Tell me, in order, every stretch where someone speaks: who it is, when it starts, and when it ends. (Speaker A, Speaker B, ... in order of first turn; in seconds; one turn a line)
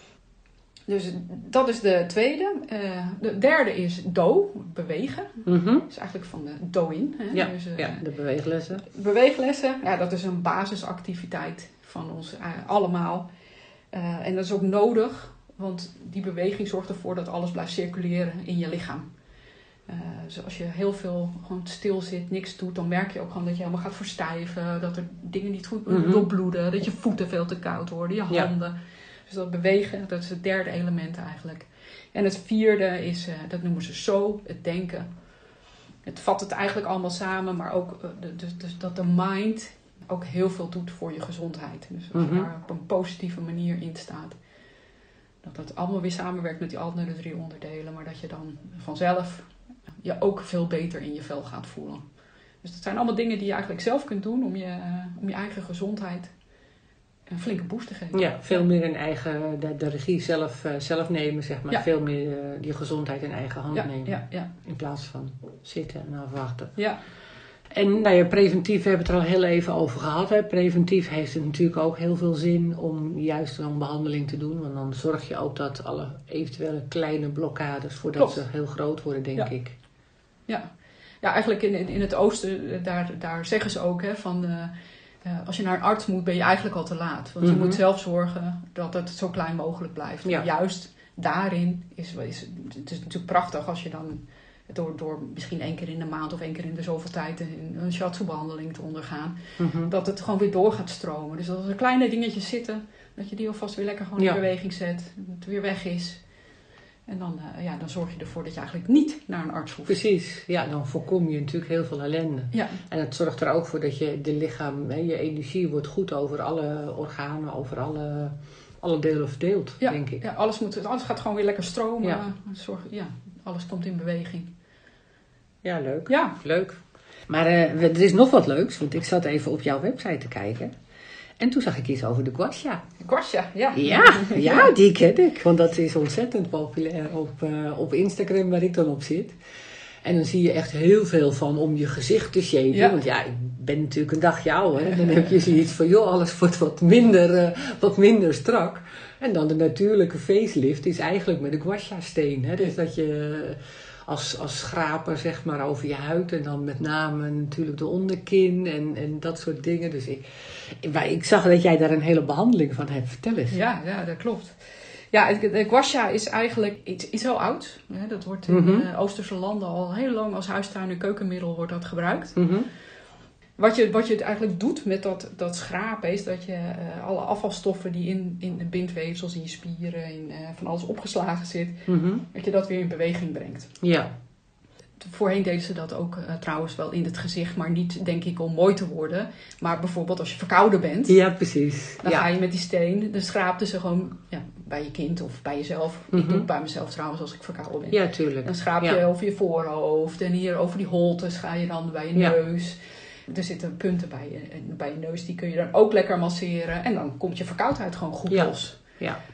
Speaker A: 0.9-8.0
Speaker B: 5.5-5.8
Speaker B: 7.3-8.8
Speaker A: 8.8-13.3
Speaker A: 13.9-19.1
Speaker A: 19.9-35.1
Speaker B: 25.9-26.3
Speaker A: 36.0-44.4
Speaker B: 42.1-42.5
Speaker A: 45.4-52.0
Speaker A: 52.6-56.3
Speaker A: 57.3-58.7
Speaker B: 58.1-66.8
Speaker A: 63.7-64.5
Speaker B: 67.7-79.7
Speaker A: 78.2-78.4
Speaker A: 81.2-84.7
Speaker A: 85.2-106.2
Speaker B: 87.4-87.8
Speaker B: 99.6-99.9
Speaker A: 107.1-110.0
Speaker B: 109.9-120.2
Speaker A: 112.5-112.8
Speaker A: 119.8-124.5
Speaker B: 125.6-126.8
Speaker A: 126.1-126.4
Speaker B: 127.3-130.7
Speaker B: 131.4-132.8
Speaker A: 133.0-134.7
Speaker B: 133.7-139.3
Speaker B: 140.0-163.6
Speaker A: 142.7-143.0
Speaker A: 144.8-145.3
Speaker A: 163.5-172.4
Speaker B: 168.5-168.8
Speaker B: 172.3-172.7
Speaker A: 173.6-183.7
Speaker B: 181.9-182.2
Speaker B: 183.8-184.1
Speaker A: 185.0-191.2
Speaker B: 191.1-192.3
Speaker A: 192.0-208.8
Speaker B: 196.1-196.5
Speaker B: 197.9-199.0
Speaker B: 208.3-209.2